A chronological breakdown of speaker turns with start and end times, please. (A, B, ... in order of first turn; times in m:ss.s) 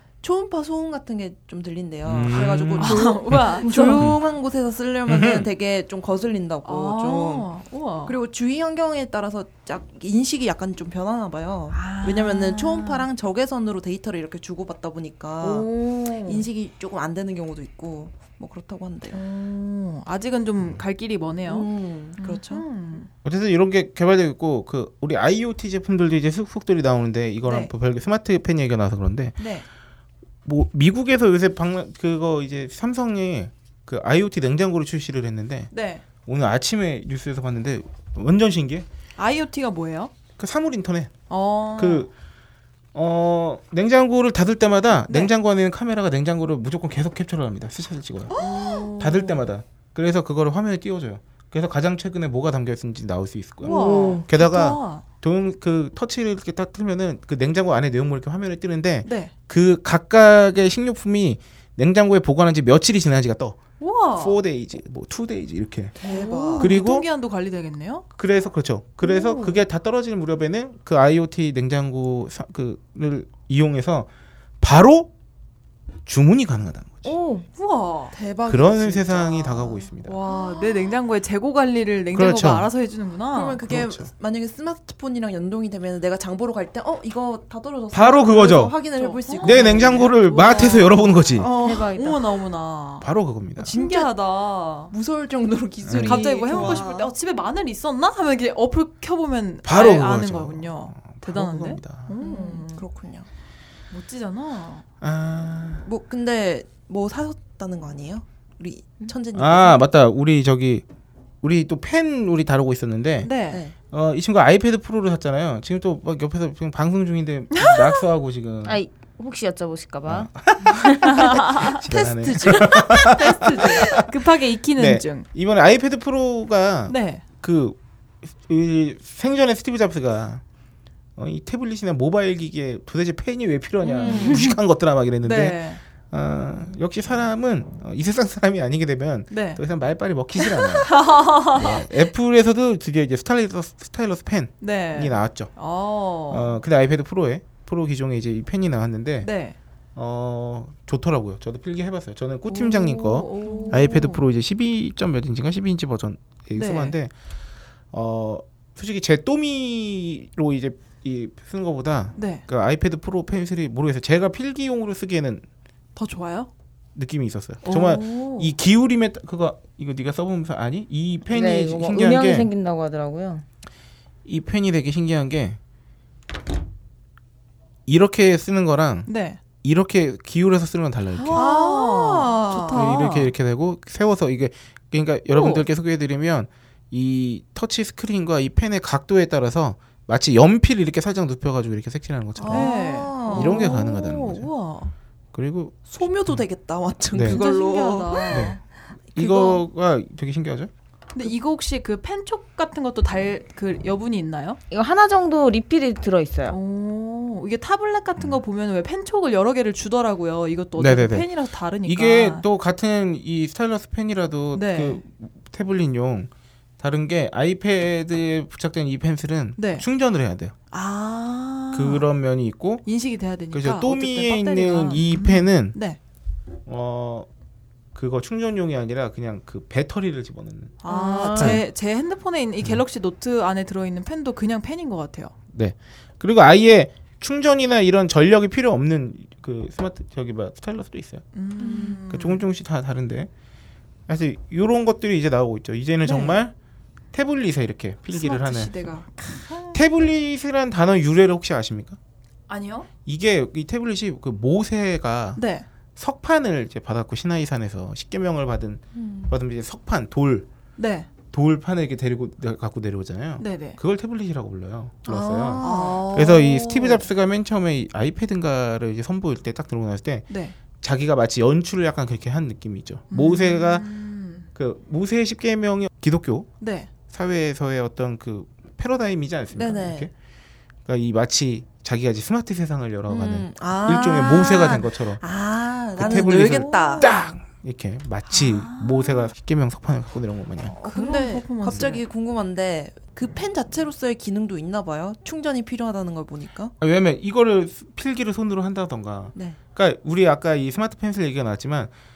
0:00.2-0:07.5 A
0:02.0-0:04.2 B
0:02.4-0:04.1 C
0:05.1-0:05.5 B
0:06.6-0:08.2 C
0:08.0-0:15.7 A
0:11.7-0:13.1 C
0:15.4-0:16.4 C
0:16.2-0:19.2 A
0:19.1-0:23.1 C
0:21.4-0:22.6 A
0:23.2-0:29.4 B
0:27.4-0:27.7 C
0:29.4-0:29.6 C
0:30.4-0:35.7 B
0:35.7-0:36.0 C
0:36.2-0:38.9 B
0:39.2-0:40.1 C
0:40.4-0:41.1 B
0:41.3-0:42.1 C
0:41.8-0:42.1 B
0:42.9-1:03.6 B
0:45.1-0:45.3 C
0:48.3-0:49.4 C
0:53.6-0:54.2 D
0:53.6-0:55.0 C
0:59.0-0:59.3 C
1:03.8-1:04.4 C
1:04.1-1:06.0 B
1:06.0-1:06.8 A
1:06.0-1:08.0 C
1:06.6-1:07.0 B
1:08.1-1:14.1 B
1:09.0-1:09.6 D
1:14.6-1:15.1 B
1:16.0-1:17.2 B
1:17.0-1:17.4 D
1:17.5-1:18.1 C
1:18.1-1:20.7 A
1:18.5-1:20.2 B
1:20.0-1:23.6 C
1:22.1-1:22.7 B
1:23.3-1:31.9 A
1:23.7-1:24.1 B
1:27.9-1:28.8 B
1:29.0-1:34.9 C
1:29.4-1:31.5 B
1:31.6-1:32.2 D
1:33.0-1:33.7 B
1:33.7-1:34.1 A
1:34.9-1:37.1 A
1:35.8-1:36.8 B
1:35.9-1:42.8 C
1:39.6-1:42.1 B
1:42.2-1:43.3 A
1:43.9-1:44.8 C
1:45.0-1:45.8 B
1:45.8-1:49.8 A
1:49.3-1:50.8 B
1:51.4-1:53.3 B
1:53.2-1:53.6 C
1:53.9-1:58.8 B
1:57.5-1:57.9 C
1:58.6-2:01.4 D
2:00.0-2:04.2 B
2:01.1-2:01.8 C
2:01.8-2:03.7 A
2:02.4-2:05.2 C
2:04.8-2:10.4 B
2:06.9-2:07.2 C
2:11.2-2:25.5 B
2:13.9-2:14.4 A
2:14.0-2:14.5 C
2:15.2-2:15.8 C
2:19.3-2:19.6 C
2:20.4-2:21.8 C
2:24.6-2:26.6 C
2:26.3-2:29.3 B
2:29.2-2:29.6 C
2:30.0-2:37.1 B
2:32.5-2:34.2 C
2:33.4-2:33.7 A
2:36.5-2:36.9 C
2:37.9-2:45.4 B
2:42.2-2:42.4 C
2:46.0-2:46.5 C
2:46.9-2:52.5 B
2:47.6-2:48.5 C
2:51.3-2:53.4 D
2:54.2-2:55.6 B
2:57.9-2:59.1 B
2:59.1-2:59.4 C
2:59.6-3:01.5 B
3:01.1-3:03.3 C
3:01.3-3:02.9 A
3:02.7-3:12.7 B
3:05.3-3:05.6 C
3:12.4-3:13.7 A
3:12.5-3:14.9 C
3:13.3-3:14.5 B
3:15.3-3:16.4 B
3:15.9-3:18.6 A
3:17.1-3:17.4 B
3:17.2-3:18.6 C
3:18.3-3:18.6 B
3:19.1-3:19.6 A
3:19.1-3:20.7 B
3:21.1-3:24.6 C
3:24.7-3:26.6 D
3:26.5-3:32.4 C
3:30.8-3:31.3 B
3:31.8-3:40.5 B
3:34.5-3:35.0 C
3:39.6-3:39.8 C
3:40.7-3:42.1 C
3:41.7-3:42.8 B
3:42.8-3:46.0 C
3:43.5-3:45.8 B
3:46.7-3:47.3 B
3:47.9-3:50.8 B
3:50.8-3:55.3 C
3:50.9-3:51.5 D
3:50.9-3:51.5 A
3:51.3-3:51.6 B
3:55.5-4:01.2 B
4:01.3-4:02.4 C
4:02.1-4:03.3 B
4:04.1-4:06.5 B
4:06.0-4:06.4 C
4:07.1-4:09.0 B
4:08.1-4:09.7 C
4:09.7-4:12.0 B
4:12.5-4:12.9 C
4:13.0-4:15.4 B
4:15.4-4:15.6 C
4:16.0-4:20.5 B
4:18.9-4:19.3 A
4:20.8-4:21.1 C
4:21.3-4:33.8 B
4:23.4-4:23.8 C
4:25.1-4:26.1 A
4:25.6-4:27.1 C
4:30.3-4:30.6 C
4:33.1-4:34.4 C
4:34.5-4:36.5 B
4:36.6-4:36.9 C
4:37.1-4:40.1 B
4:39.5-4:40.1 A
4:40.8-4:45.2 B
4:43.1-4:47.4 A
4:45.9-4:50.8 B
4:46.0-4:47.2 C
4:48.3-4:49.3 C
4:50.8-4:52.0 C
4:50.8-4:56.7 A
4:56.8-5:01.9 B